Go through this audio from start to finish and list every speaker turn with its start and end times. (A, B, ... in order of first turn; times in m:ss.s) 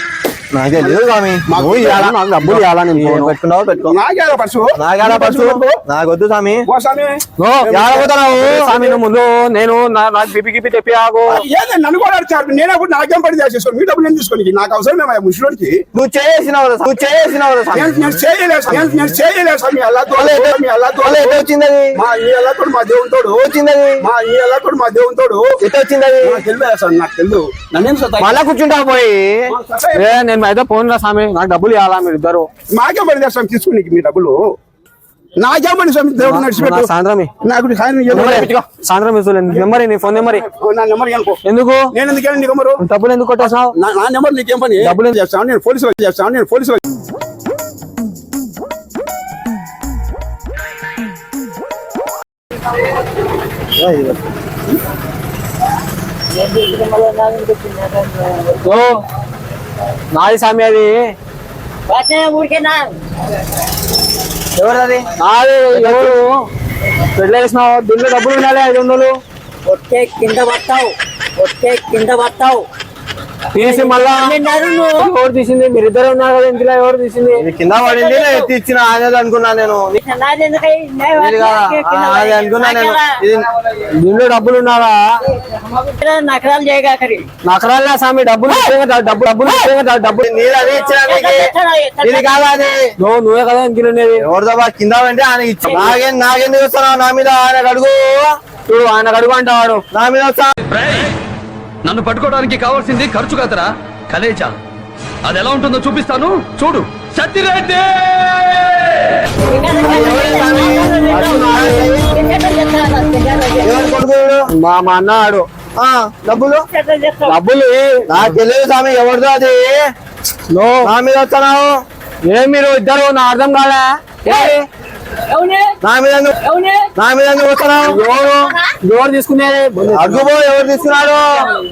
0:00.5-0:04.0 A
0:01.5-0:02.2 B
0:02.1-0:03.3 C
0:03.8-0:05.8 B
0:04.8-0:06.7 A
0:06.7-0:08.1 B
0:07.4-0:07.8 C
0:07.7-0:08.7 A
0:08.4-0:11.4 C
0:11.3-0:15.8 B
0:15.9-0:18.0 A
0:17.7-0:21.4 B
0:20.2-0:22.0 A
0:22.0-0:23.4 B
0:23.4-0:24.0 A
0:24.0-0:25.5 B
0:25.6-0:26.4 A
0:26.2-0:28.4 B
0:28.2-0:29.5 A
0:29.5-0:30.2 B
0:29.9-0:32.5 C
0:32.7-0:34.4 B
0:35.4-0:36.9 B
0:36.2-0:37.3 C
0:37.4-0:38.5 B
0:38.1-0:40.4 C
0:40.2-0:41.4 B
0:41.4-0:41.9 C
0:41.9-0:42.8 B
0:42.8-0:43.7 C
0:43.4-0:46.8 B
0:44.8-0:45.2 C
0:53.8-0:54.2 A
0:56.3-0:58.7 D
0:58.6-0:59.0 C
1:00.1-1:01.2 C
1:01.9-1:02.9 D
1:04.6-1:05.1 A
1:05.2-1:06.5 C
1:05.8-1:06.1 A
1:07.1-1:09.2 C
1:09.6-1:12.7 D
1:13.5-1:14.4 C
1:13.6-1:15.1 D
1:15.0-1:17.4 C
1:17.4-1:20.0 A
1:17.8-1:18.5 D
1:20.0-1:23.2 D
1:21.2-1:23.5 A
1:24.0-1:25.2 C
1:25.4-1:27.3 D
1:27.4-1:30.2 C
1:30.2-1:31.5 A
1:30.8-1:32.4 D
1:32.0-1:32.9 A
1:33.0-1:34.3 C
1:34.2-1:38.3 A
1:35.6-1:36.0 D
1:38.7-1:39.8 C
1:39.9-1:40.5 A
1:40.7-1:41.1 E
1:41.8-1:44.6 E
1:45.2-1:48.8 E
1:49.5-1:53.9 D
1:49.8-1:52.0 A
1:51.0-1:52.0 C
1:53.6-1:54.5 A
1:54.5-1:55.5 C
1:55.8-1:56.7 A
1:56.4-1:57.4 D
1:57.2-1:58.1 C
1:58.1-1:59.8 A
2:00.5-2:00.9 C
2:00.8-2:01.8 A
2:02.3-2:04.6 C
2:04.2-2:04.6 D
2:05.3-2:05.8 D
2:05.8-2:06.4 A
2:06.4-2:06.9 D
2:07.0-2:08.0 A
2:07.8-2:10.3 C
2:08.4-2:08.8 D
2:09.9-2:11.5 A